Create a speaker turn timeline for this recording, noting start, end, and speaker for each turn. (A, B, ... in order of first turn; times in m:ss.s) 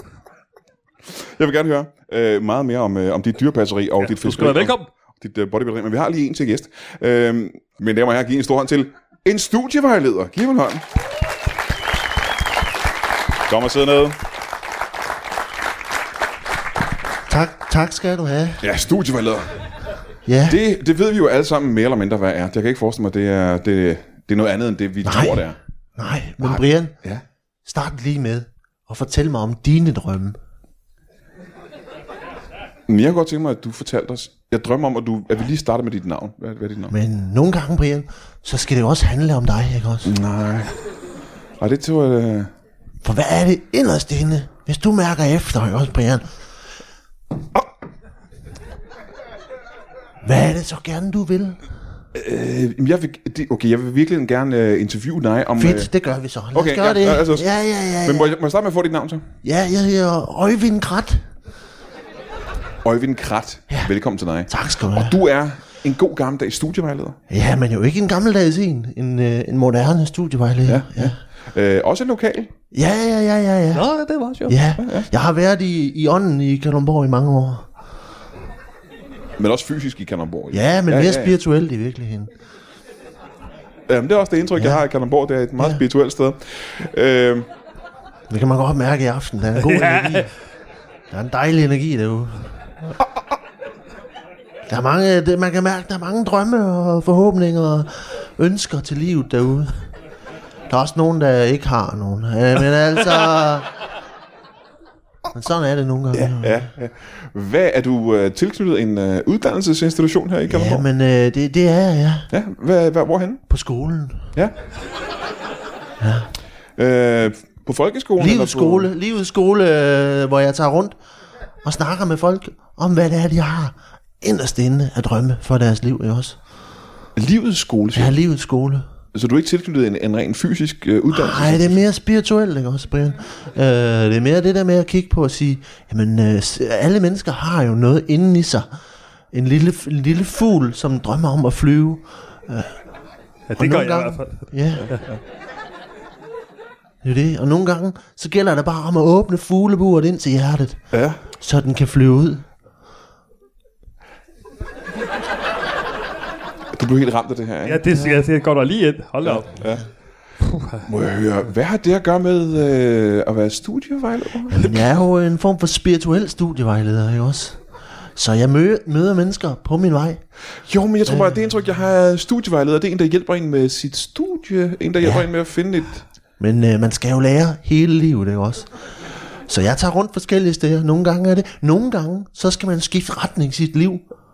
0:01.2-0:10.8 A
0:04.0-0:04.9 B
0:13.5-0:14.2 A
0:17.3-0:18.6 C
0:18.6-0:19.6 A
0:20.3-0:20.6 C
0:20.5-0:25.6 A
0:25.0-0:27.0 C
0:26.4-0:27.2 A
0:27.6-0:30.4 C
0:32.9-0:36.9 A
0:36.9-0:40.1 C
0:40.0-0:40.7 A
0:41.6-0:42.5 A
0:43.0-0:46.3 C
0:50.2-0:51.6 C
0:52.1-0:55.9 A
0:55.6-0:58.4 C
0:56.5-0:57.5 A
0:58.0-0:59.2 A
0:59.4-1:01.3 C
1:02.8-1:07.2 A
1:04.5-1:05.2 C
1:07.3-1:11.2 C
1:10.7-1:12.5 A
1:12.7-1:13.9 C
1:13.7-1:14.6 B
1:14.5-1:17.7 C
1:14.8-1:15.1 A
1:19.4-1:21.4 A
1:20.5-1:22.3 C
1:23.9-1:27.5 A
1:24.6-1:24.8 C
1:28.3-1:30.3 C
1:29.7-1:30.3 B
1:31.1-1:32.9 C
1:34.7-1:39.8 C
1:40.7-1:43.7 C
1:45.3-1:46.7 C
1:46.1-1:50.9 A
1:50.5-1:52.3 C
1:52.3-1:53.4 A
1:53.5-1:54.3 C
1:56.0-1:56.3 C
1:56.8-1:58.9 A
1:58.2-2:01.0 C
2:01.6-2:06.4 C
2:07.2-2:08.2 A
2:07.9-2:08.9 C
2:09.1-2:11.8 A
2:11.1-2:18.7 C
2:19.3-2:22.8 C
2:23.5-2:25.0 B
2:23.6-2:25.0 C
2:27.0-2:32.4 C
2:30.9-2:31.2 A
2:36.7-2:37.8 A
2:37.6-2:39.5 B
2:37.9-2:38.2 C
2:39.2-2:39.8 A
2:40.4-2:40.9 B
2:40.9-2:44.6 A
2:44.5-2:47.6 C
2:48.2-2:50.2 C
2:50.6-2:56.0 A
2:51.1-2:51.4 C
2:55.0-2:55.3 C
2:56.4-2:58.7 C
2:59.5-3:04.0 C